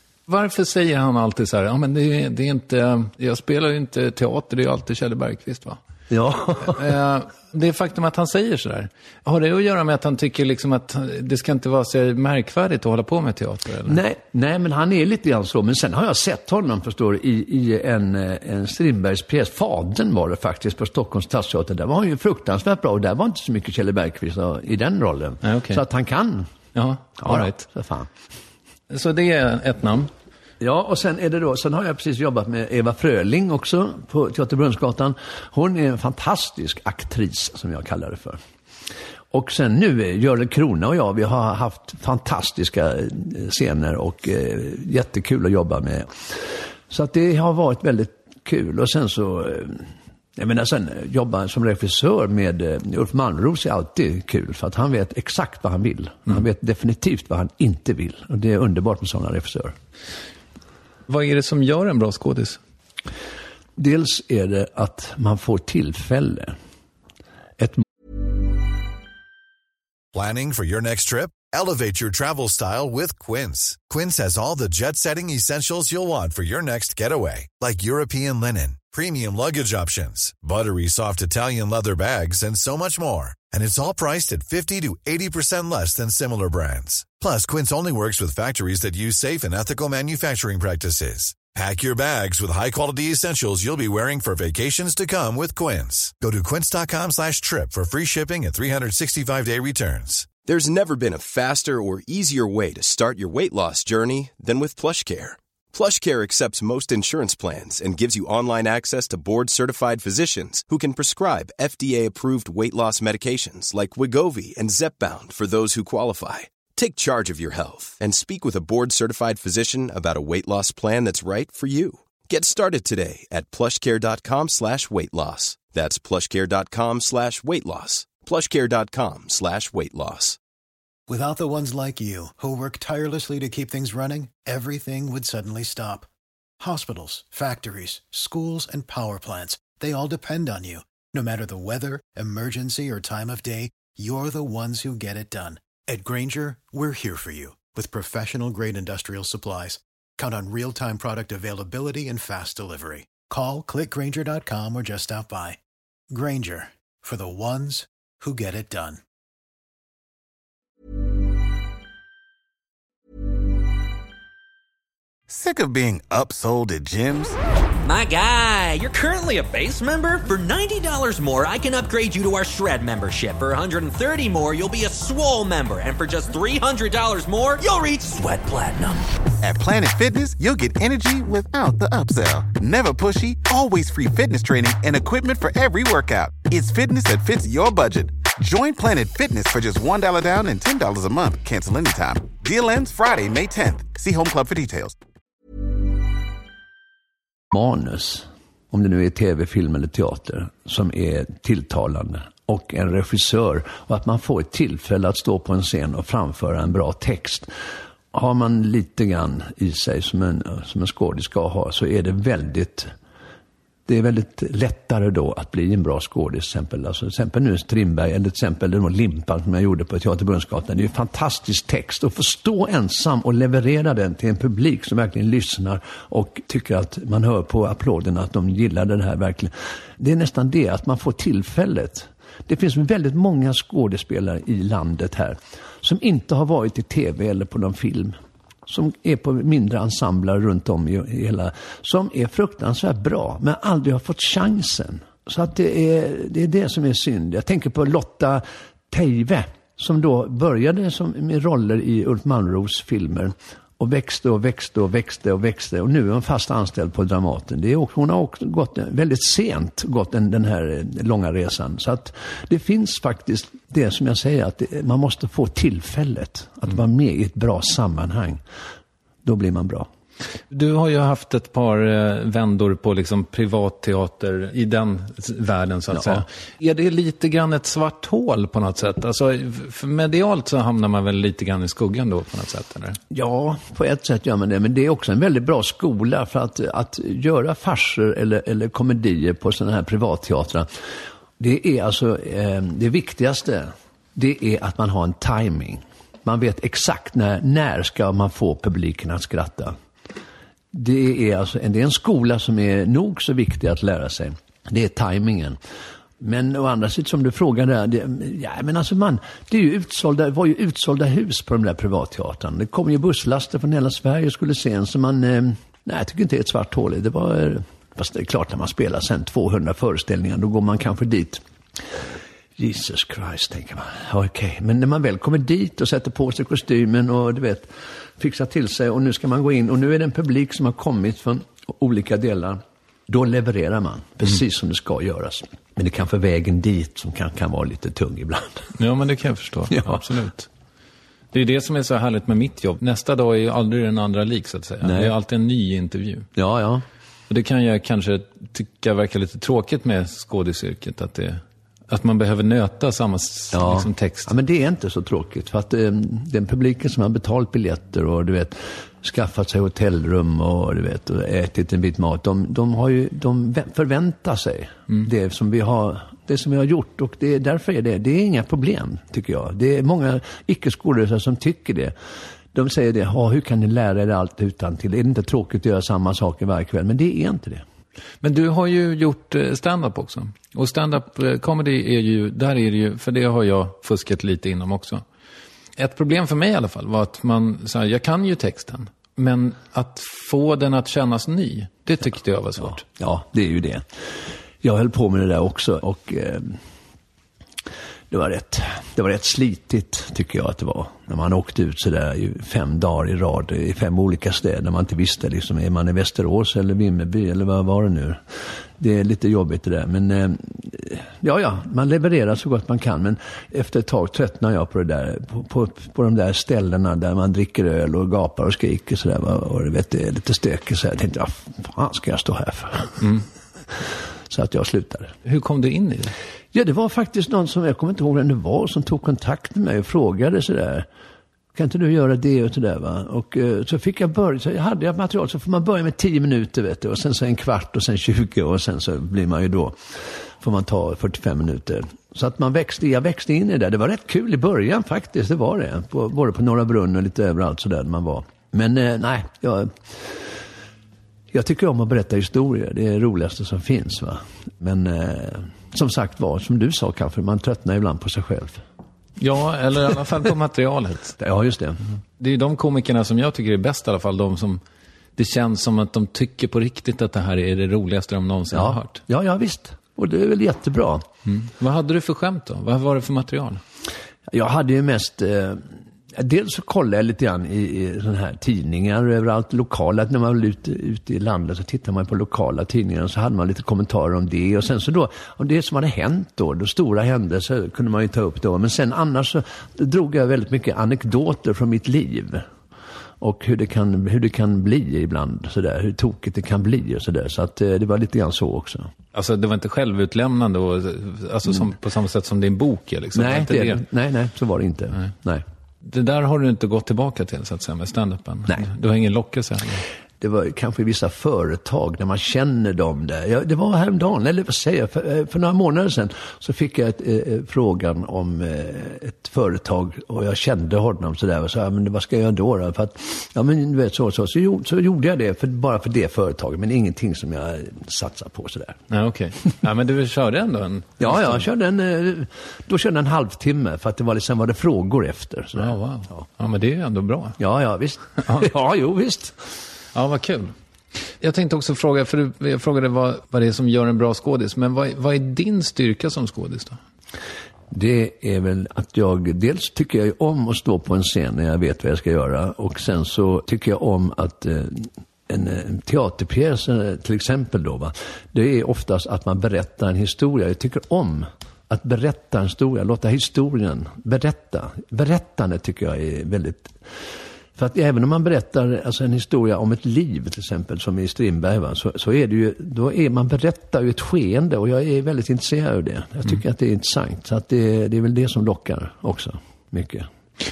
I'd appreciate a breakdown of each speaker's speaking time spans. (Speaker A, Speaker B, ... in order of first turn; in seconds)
Speaker A: 0.3-5.8, 6.6-14.0, 25.4-25.8, 26.8-27.6, 28.9-30.1, 61.1-62.6, 270.5-283.0, 338.8-340.5, 341.3-346.3, 347.3-354.3, 378.2-385.0, 385.8-392.9, 425.2-426.1, 459.2-461.2, 462.2-464.6, 465.2-469.0, 471.3-473.6, 499.1-503.8, 505.8-509.8, 528.9-531.5, 535.6-537.4, 539.9-540.5, 541.1-546.8
Speaker B: 6.1-6.8, 13.9-26.5, 27.2-28.1, 30.6-38.4, 39.3-59.8, 63.8-66.6, 67.6-67.8, 197.5-207.5, 208.1-212.9, 213.9-268.4, 269.2-269.9, 275.9-276.2, 283.1-290.7, 291.4-299.7, 300.7-305.6, 306.2-322.0, 322.6-338.7, 339.7-340.1, 344.8-345.1, 346.4-346.8, 353.5-371.9, 372.5-377.6, 392.8-393.9, 394.6-396.6, 398.1-408.2, 408.8-423.2, 423.7-425.1, 426.5-430.9, 431.5-450.3, 451.3-458.6, 461.2-461.8, 468.5-471.1, 474.3-492.4, 493.2-498.9, 503.1-505.4, 510.2-528.8, 531.0-536.3, 537.4-539.5, 547.7-580.1
Speaker C: 70.1-100.3
Speaker D: 100.4-130.4
Speaker E: 131.1-136.1, 136.6-155.6, 156.1-159.0
Speaker F: 165.3-167.4, 179.4-194.9
Speaker G: 167.8-179.1